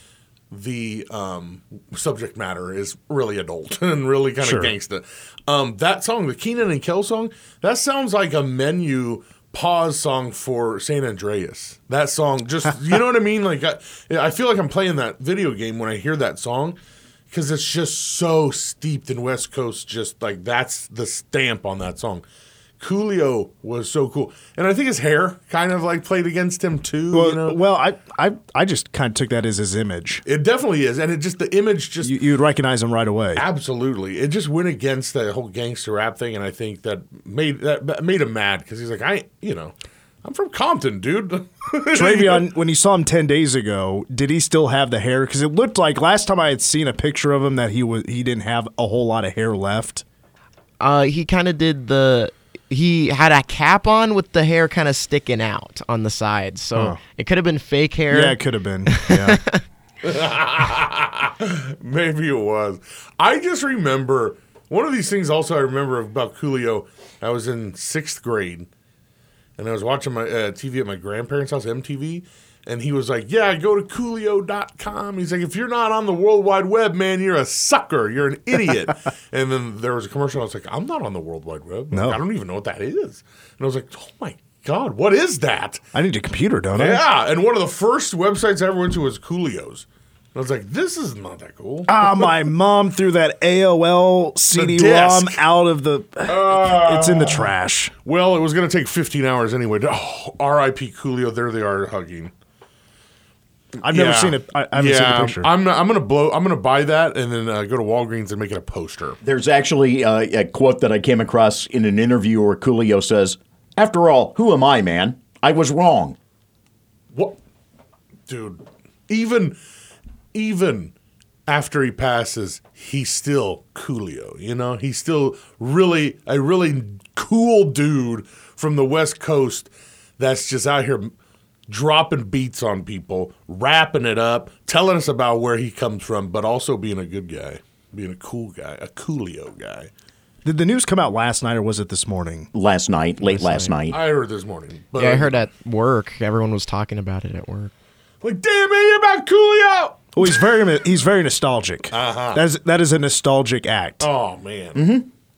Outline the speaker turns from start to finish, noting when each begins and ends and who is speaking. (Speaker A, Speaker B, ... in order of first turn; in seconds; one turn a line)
Speaker A: 0.5-16.8
Speaker B: 4.4-4.8
Speaker A: 17.3-22.2
Speaker A: 22.8-27.6
Speaker B: 27.1-30.2
Speaker A: 30.2-32.2
Speaker B: 32.0-33.5
Speaker A: 33.4-42.5
Speaker B: 41.9-50.0
Speaker C: 50.8-58.4
Speaker B: 56.8-57.0
Speaker B: 58.1-59.4
Speaker C: 58.9-59.6
Speaker A: 60.0-68.7
Speaker A: 69.6-85.8
Speaker B: 81.9-82.2
Speaker B: 85.9-87.0
Speaker A: 86.8-92.3
Speaker B: 91.9-97.9
Speaker A: 94.5-95.4
Speaker A: 96.3-97.5
Speaker A: 98.0-102.3
Speaker B: 103.8-105.5
Speaker A: 103.8-109.2
Speaker D: 109.2-116.2
Speaker A: 117.1-117.4
Speaker A: 118.3-119.6
Speaker A: 120.3-120.9
Speaker A: 121.5-131.1
Speaker A: 131.7-139.9
Speaker B: 140.4-142.5
Speaker D: 142.5-144.0
Speaker C: 143.3-143.7
Speaker A: 143.9-145.4
Speaker C: 144.9-147.7
Speaker A: 148.2-150.4
Speaker B: 150.2-154.1
Speaker A: 151.9-152.4
Speaker A: 154.0-154.8
Speaker D: 154.8-155.1